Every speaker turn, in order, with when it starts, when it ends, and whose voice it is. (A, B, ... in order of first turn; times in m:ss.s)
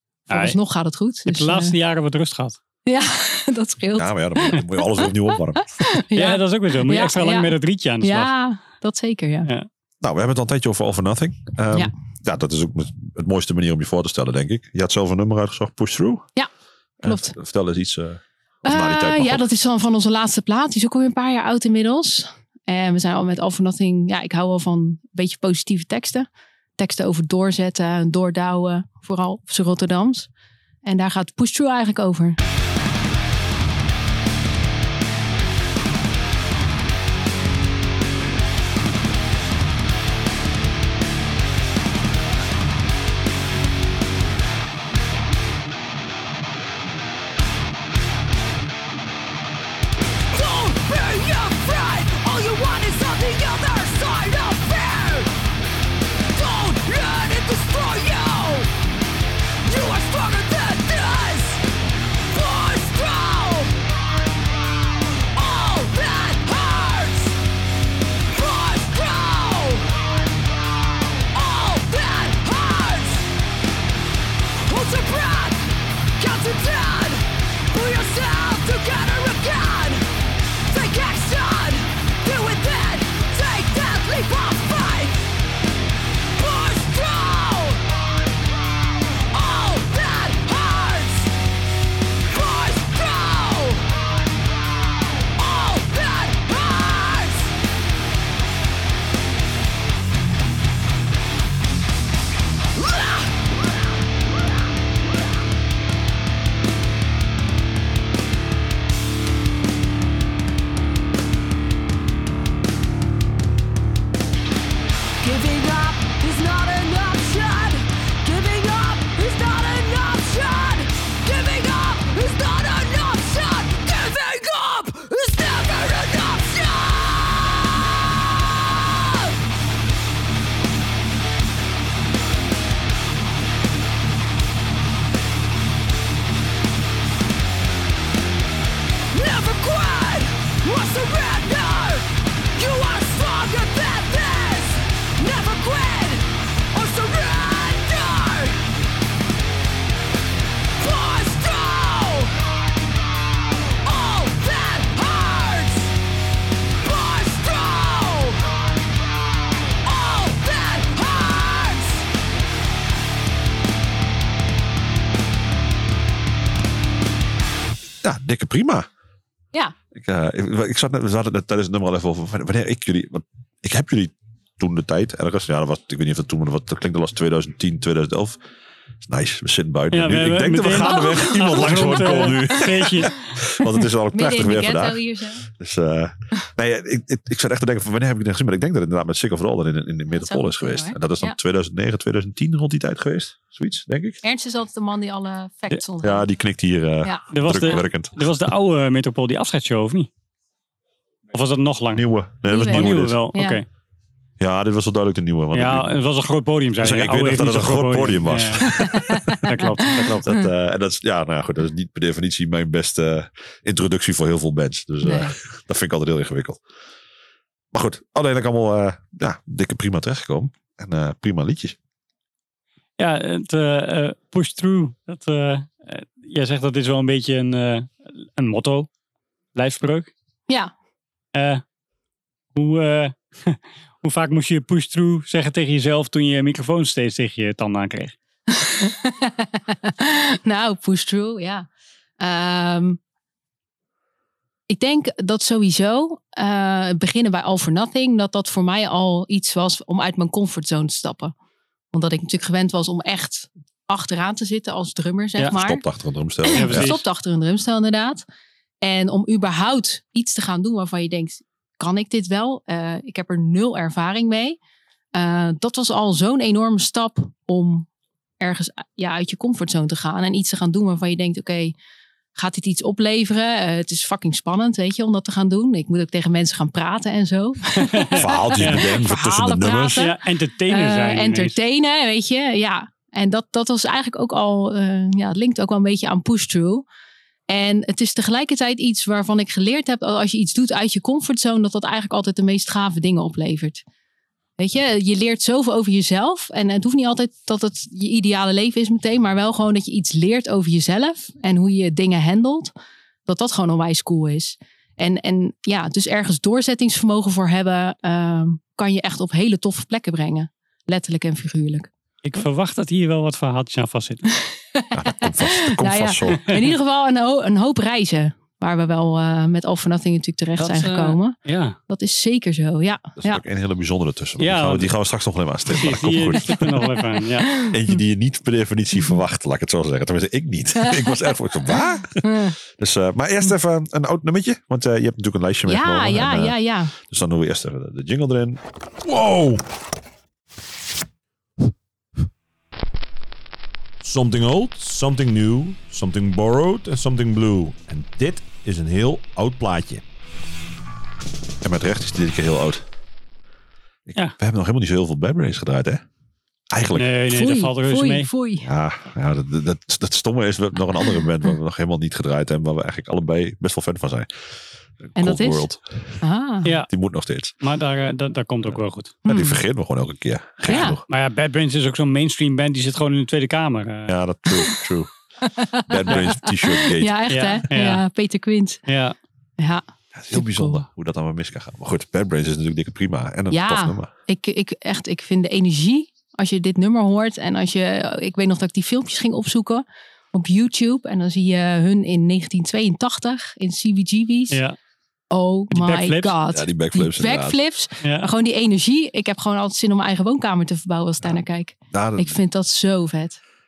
0:00.3-0:01.7 A
0:00.3-0:00.6 B
0:01.2-0:02.6 B
0:02.9-0:09.5 A
0:03.9-0:05.7 C
0:06.2-0:08.3 B
0:10.0-0:16.3 C
0:17.0-0:19.5 C
0:17.0-0:17.4 A
0:18.6-0:30.3 A
0:30.8-0:32.4 A
0:50.3-0:55.3 D
0:56.3-0:58.7 D
0:59.6-1:01.6 D
1:02.2-1:03.7 D
1:05.3-1:07.4 D
1:08.3-1:09.9 D
1:11.3-1:13.3 D
1:14.6-1:20.0 D
1:20.7-1:25.3 D
1:26.4-1:27.8 D
1:29.3-1:31.4 D
1:32.3-1:33.9 D
1:35.4-1:37.5 D
1:42.8-1:43.3 D
1:55.2-2:09.4 D
2:19.1-2:28.7 D
2:30.8-2:32.4 D
2:33.8-2:35.9 D
2:36.8-2:38.4 D
2:39.8-2:42.0 D
2:48.0-2:48.9 C
2:49.9-2:58.4 C
2:59.0-3:14.2 C
2:59.9-3:03.1 B
3:00.9-3:02.6 A
3:03.6-3:05.4 A
3:10.1-3:11.4 A
3:14.2-3:16.3 A
3:16.0-3:18.3 C
3:17.3-3:20.1 B
3:21.3-3:22.1 B
3:21.9-3:23.3 C
3:22.5-3:23.6 A
3:22.6-3:23.6 B
3:24.4-3:25.9 C
3:25.5-3:28.9 B
3:26.8-3:36.6 C
3:28.6-3:30.4 A
3:29.4-3:30.3 B
3:35.0-3:35.3 A
3:37.7-3:41.8 C
3:43.0-3:48.9 B
3:49.6-3:50.1 B
3:51.4-3:51.6 B
3:52.6-3:58.2 B
3:58.5-4:01.7 A
4:02.2-4:03.0 A
4:04.7-4:11.3 A
4:11.9-4:15.8 A
4:15.4-4:17.0 C
4:16.4-4:18.2 A
4:16.5-4:17.0 B
4:18.8-4:24.6 A
4:25.1-4:27.9 A
4:28.4-4:31.7 A
4:32.4-4:46.9 A
4:37.8-4:38.9 B
4:38.1-4:40.0 C
4:40.0-4:41.5 B
4:47.5-4:53.8 A
4:54.6-5:02.7 A
5:03.2-5:11.9 A
5:12.2-5:14.2 B
5:14.8-5:21.4 A
5:14.9-5:16.5 C
5:20.6-5:21.8 B
5:21.9-5:23.4 A
5:23.2-5:26.8 C
5:24.4-5:24.9 B
5:25.8-5:27.5 B
5:26.6-5:27.8 A
5:27.6-5:38.6 C
5:30.8-5:32.5 A
5:35.6-5:36.9 A
5:39.0-5:39.6 E
5:44.0-5:50.0 E
5:51.6-5:52.8 C
5:54.1-5:56.0 C
5:56.7-5:57.1 C
5:57.0-5:58.3 B
5:57.3-5:58.7 A
5:58.6-6:04.3 C
6:05.0-6:06.2 C
6:05.2-6:05.7 A
6:06.2-6:06.7 A
6:06.9-6:07.5 C
6:07.6-6:09.2 B
6:09.2-6:09.6 A
6:09.2-6:11.0 C
6:10.7-6:11.0 A
6:11.1-6:14.1 B
6:14.1-6:15.1 C
6:15.4-6:18.8 A
6:15.7-6:17.6 C
6:17.3-6:18.0 B
6:18.9-6:19.2 B
6:19.6-6:20.8 A
6:20.1-6:24.1 C
6:23.5-6:34.6 A
6:34.5-6:34.8 B
6:35.3-6:43.4 A
6:35.7-6:36.3 B
6:36.5-6:37.6 C
6:38.0-6:38.3 B
6:41.9-6:42.4 C